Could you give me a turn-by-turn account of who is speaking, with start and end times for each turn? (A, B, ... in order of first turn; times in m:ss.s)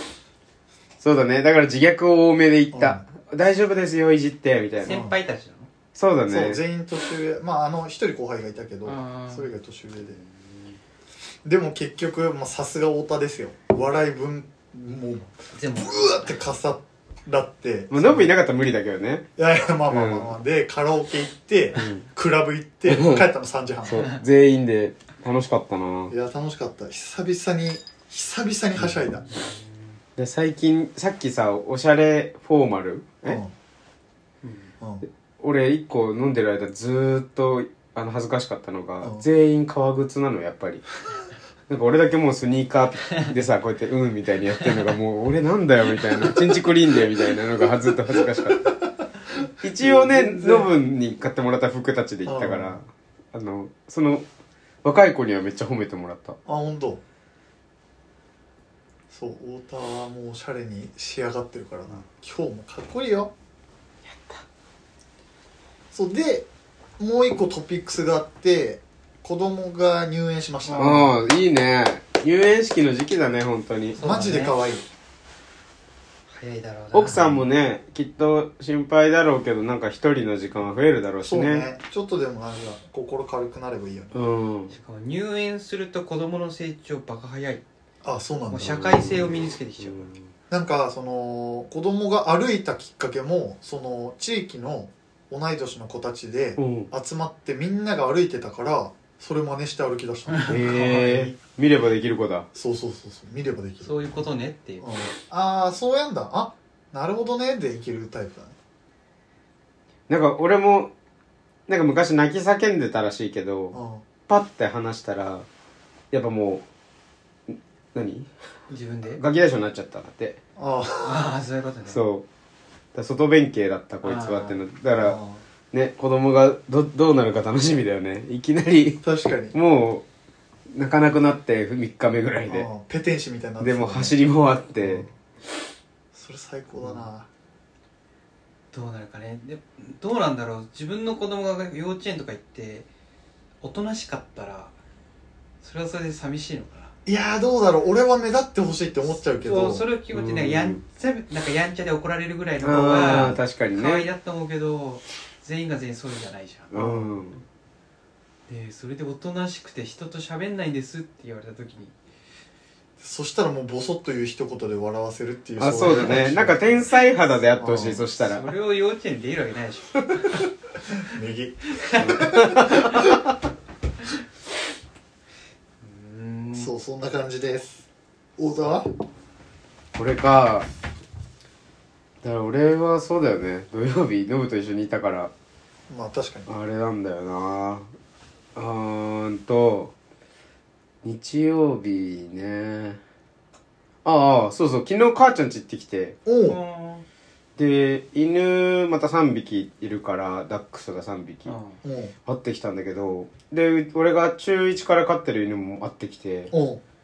0:01.0-0:05.0 A
0:02.7-0:03.0 B
0:04.8-0:05.7 C
0:04.9-0:05.2 B
0:06.0-0:06.6 A
0:06.3-0:10.2 B
0:08.8-0:09.5 C
0:11.4-0:18.3 B
0:15.5-0:16.4 C
0:17.9-0:19.3 A
0:19.4-0:24.1 B
0:19.9-0:20.3 A
0:21.8-0:22.1 A
0:22.9-0:23.3 A
0:23.9-0:26.1 A
0:26.1-0:29.3 B
0:30.2-0:33.4 A
0:33.2-0:33.5 B
0:34.4-0:34.7 C
0:34.8-0:35.0 B
0:35.4-0:40.9 A
0:41.7-0:48.7 A
0:48.1-0:48.7 B
0:49.6-0:54.2 A
0:49.8-0:50.7 B
0:52.3-0:52.8 B
0:54.8-0:56.4 A
0:56.4-0:57.0 B
0:59.1-1:03.3 B
1:05.9-1:06.5 B
1:07.0-1:11.1 B
1:10.6-1:11.1 C
1:10.8-1:14.0 A
1:14.0-1:14.6 C
1:14.0-1:14.9 B
1:16.3-1:17.4 C
1:16.9-1:21.7 A
1:21.2-1:24.2 B
1:24.1-1:24.7 A
1:24.7-1:27.6 C
1:28.0-1:29.1 B
1:28.5-1:30.1 C
1:28.7-1:29.3 A
1:29.8-1:30.2 A
1:30.5-1:40.6 B
1:36.6-1:36.9 A
1:40.3-1:41.4 C
1:40.5-1:42.5 A
1:42.6-1:43.9 B
1:43.8-1:44.9 C
1:44.8-1:48.6 B
1:50.1-1:50.9 A
1:51.7-1:53.8 A
1:53.7-1:54.0 B
1:54.3-1:55.5 A
1:56.1-1:56.6 A
1:57.5-1:58.3 A
1:58.7-1:59.2 C
1:59.2-2:00.4 A
2:00.6-2:01.3 B
2:01.0-2:02.0 C
2:01.9-2:02.2 A
2:03.0-2:05.2 A
2:04.0-2:04.6 C
2:05.0-2:05.4 B
2:05.7-2:10.0 A
2:09.0-2:09.6 B
2:10.7-2:12.7 A
2:12.5-2:14.2 B
2:13.6-2:15.1 A
2:14.8-2:15.1 B
2:16.1-2:17.3 B
2:18.7-2:22.9 C
2:23.6-2:24.7 C
2:25.6-2:26.9 C
2:27.1-2:29.8 B
2:29.4-2:36.7 C
2:30.1-2:30.8 A
2:32.6-2:34.1 A
2:36.7-2:37.4 A
2:36.8-2:37.1 B
2:38.5-2:41.9 C
2:43.0-2:46.9 B
2:45.6-2:48.5 A
2:45.8-2:46.2 C
2:47.6-2:48.0 B
2:48.2-2:50.5 C
2:51.0-2:53.2 B
2:51.8-2:52.4 C
2:52.2-2:53.1 A
2:55.8-2:56.7 C
2:56.6-2:57.9 B
2:58.4-2:58.9 B
3:00.0-3:00.7 A
3:02.2-3:05.3 A
3:05.9-3:06.5 B
3:06.5-3:07.9 A
3:08.6-3:09.9 A
3:11.0-3:13.0 A
3:14.0-3:16.2 A
3:16.3-3:16.6 B
3:16.4-3:17.1 C
3:17.6-3:21.5 A
3:21.5-3:21.8 C
3:21.8-3:22.1 B
3:22.3-3:26.5 A
3:26.5-3:26.8 B